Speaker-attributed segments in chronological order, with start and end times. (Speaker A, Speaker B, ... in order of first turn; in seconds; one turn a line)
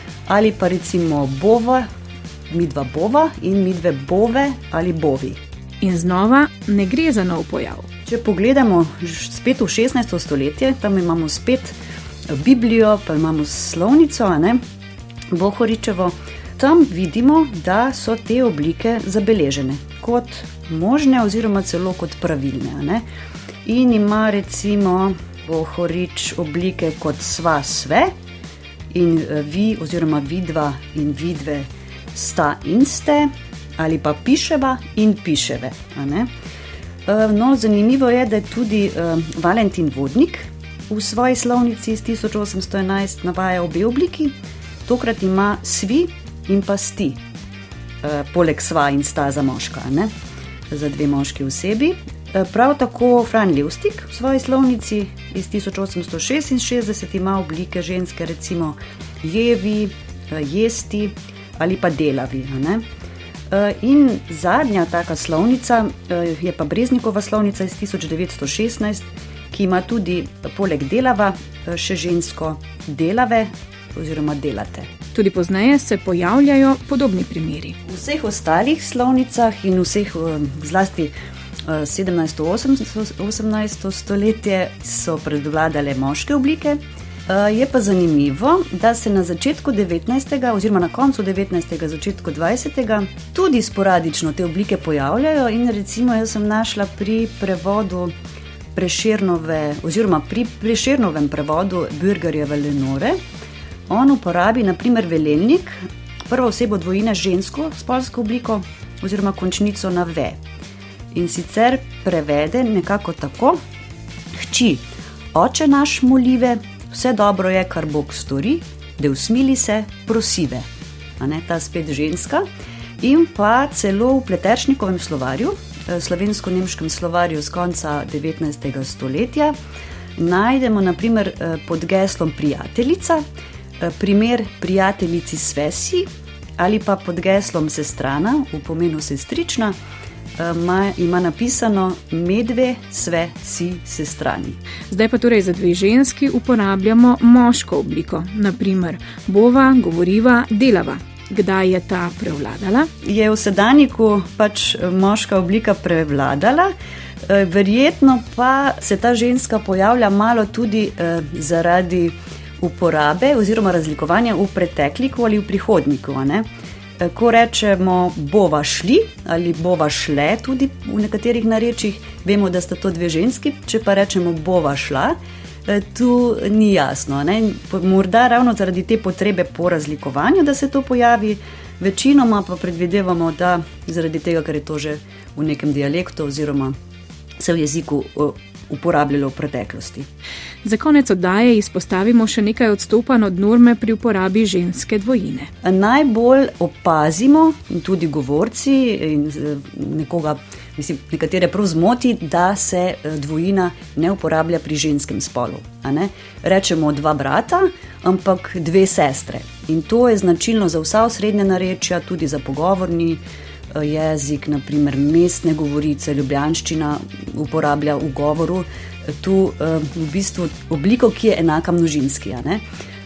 Speaker A: 0.3-1.9
Speaker A: 2.5-5.4
Speaker B: 5.8-7.9
Speaker A: 8.1-11.8
Speaker A: 12.3-14.6
Speaker A: 15.3-23.0
Speaker A: 23.6-28.1
Speaker A: 28.9-36.3
Speaker A: 37.0-44.3
Speaker A: 44.8-47.2
Speaker A: 48.0-50.1
Speaker A: 50.7-62.8
Speaker A: 63.5-74.9
Speaker B: 75.1-77.8
Speaker A: 77.8-81.1
Speaker A: 81.7-98.1
Speaker A: 98.7-103.2
Speaker A: 103.9-110.4
Speaker A: 111.1-113.6
Speaker A: 114.3-120.7
Speaker A: 121.2-122.4
Speaker A: 123.0-129.5
Speaker A: 130.2-133.2
Speaker A: 133.8-136.1
Speaker A: 136.6-139.8
Speaker A: 140.4-144.6
Speaker B: 144.9-152.9
Speaker A: 153.0-156.7
Speaker A: 157.2-166.4
Speaker A: 167.0-186.7
Speaker A: 187.4-190.1
Speaker B: 190.6-195.5
Speaker A: 195.6-213.2
Speaker A: 213.7-222.6